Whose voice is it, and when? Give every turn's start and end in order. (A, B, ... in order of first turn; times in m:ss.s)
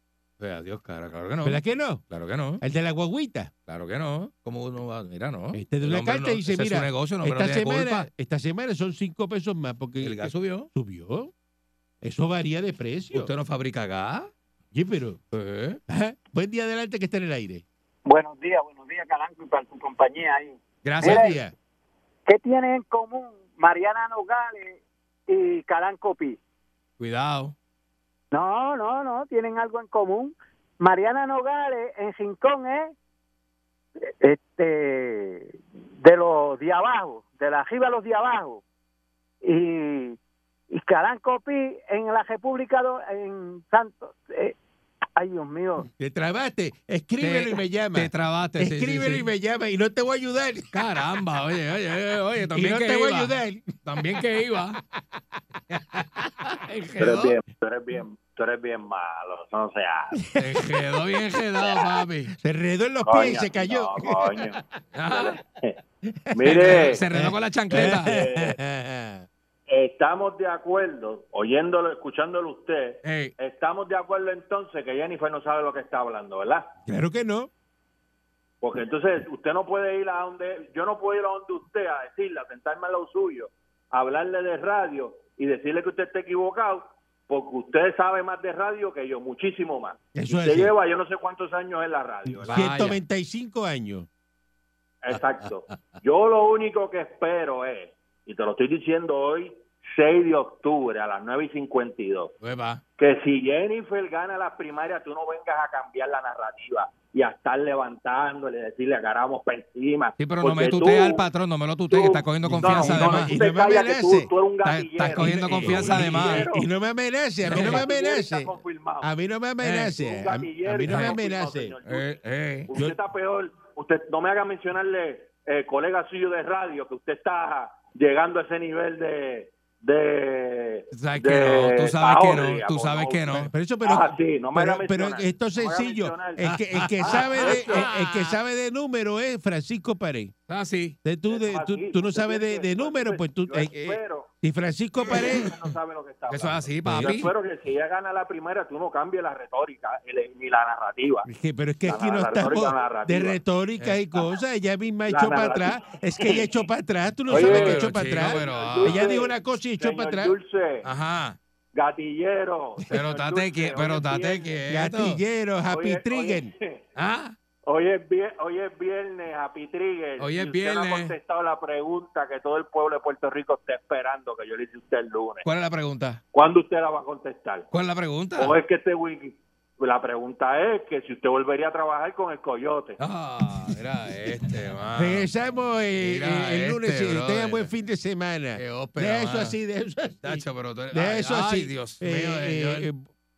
0:00.4-0:02.6 A
0:01.4-0:02.0 B
0:02.6-0:03.5 B
0:03.7-0:08.1 A
0:05.5-0:11.3 B
0:10.0-0:10.7 A
0:12.0-0:13.3 B
0:13.1-0:14.3 A
0:14.7-0:15.2 B
0:15.3-0:15.8 A
0:15.9-0:17.6 B
0:18.1-0:21.4 C
0:20.8-0:21.4 A
0:21.0-0:21.5 B
0:22.3-0:26.4 C
0:27.0-0:27.6 A
0:28.3-0:32.9 C
0:34.1-0:38.6 C
0:39.4-0:40.2 C
0:40.7-0:44.6 C
0:45.2-0:45.9 C
0:45.9-0:50.7 B
0:47.2-0:49.3 A
0:50.7-0:53.3 A
0:52.5-0:54.1 B
0:53.8-0:54.8 A
0:55.7-0:57.4 A
0:57.0-1:00.2 D
1:00.2-1:00.8 B
1:00.4-1:02.3 A
1:02.4-1:04.6 B
1:03.0-1:05.8 D
1:04.9-1:05.4 A
1:06.1-1:09.3 B
1:06.3-1:07.0 D
1:06.4-1:08.2 A
1:07.7-1:08.6 D
1:09.7-1:16.7 D
1:13.0-1:13.3 A
1:16.9-1:17.5 B
1:18.6-1:32.8 D
1:30.2-1:30.7 B
1:32.3-1:34.1 B
1:32.4-1:33.0 A
1:35.0-1:42.3 D
1:35.1-1:35.8 A
1:42.4-1:42.8 A
1:43.0-1:51.3 D
1:50.2-1:53.4 A
1:51.9-1:56.7 D
1:52.4-1:54.3 B
1:54.6-1:56.5 A
1:55.2-2:01.8 B
1:57.4-1:57.9 A
1:57.5-1:59.1 D
1:59.6-1:59.9 A
1:59.9-2:13.3 D
2:00.8-2:01.2 A
2:01.8-2:02.7 A
2:10.9-2:13.5 A
2:13.3-2:20.3 B
2:13.8-2:17.9 D
2:16.4-2:18.4 A
2:20.5-2:21.0 A
2:21.0-2:25.6 B
2:21.3-2:24.3 D
2:25.0-2:31.3 D
2:26.3-2:27.3 A
2:26.8-2:27.2 B
2:31.3-2:40.4 B
2:31.8-2:33.4 D
2:35.1-2:36.5 D
2:37.3-2:40.9 D
2:37.3-2:39.2 A
2:40.8-2:41.4 A
2:41.8-2:44.6 D
2:42.9-2:45.2 A
2:44.7-2:46.5 B
2:45.7-2:46.8 D
2:47.0-2:47.4 A
2:47.7-2:55.4 D
2:50.2-2:51.2 A
2:55.4-2:56.2 A
2:56.3-2:57.7 D
2:57.7-2:58.6 A
2:58.4-3:03.0 D
3:03.0-3:05.3 A
3:05.0-3:13.0 B
3:06.0-3:07.7 A
3:08.6-3:09.6 A
3:10.2-3:12.9 A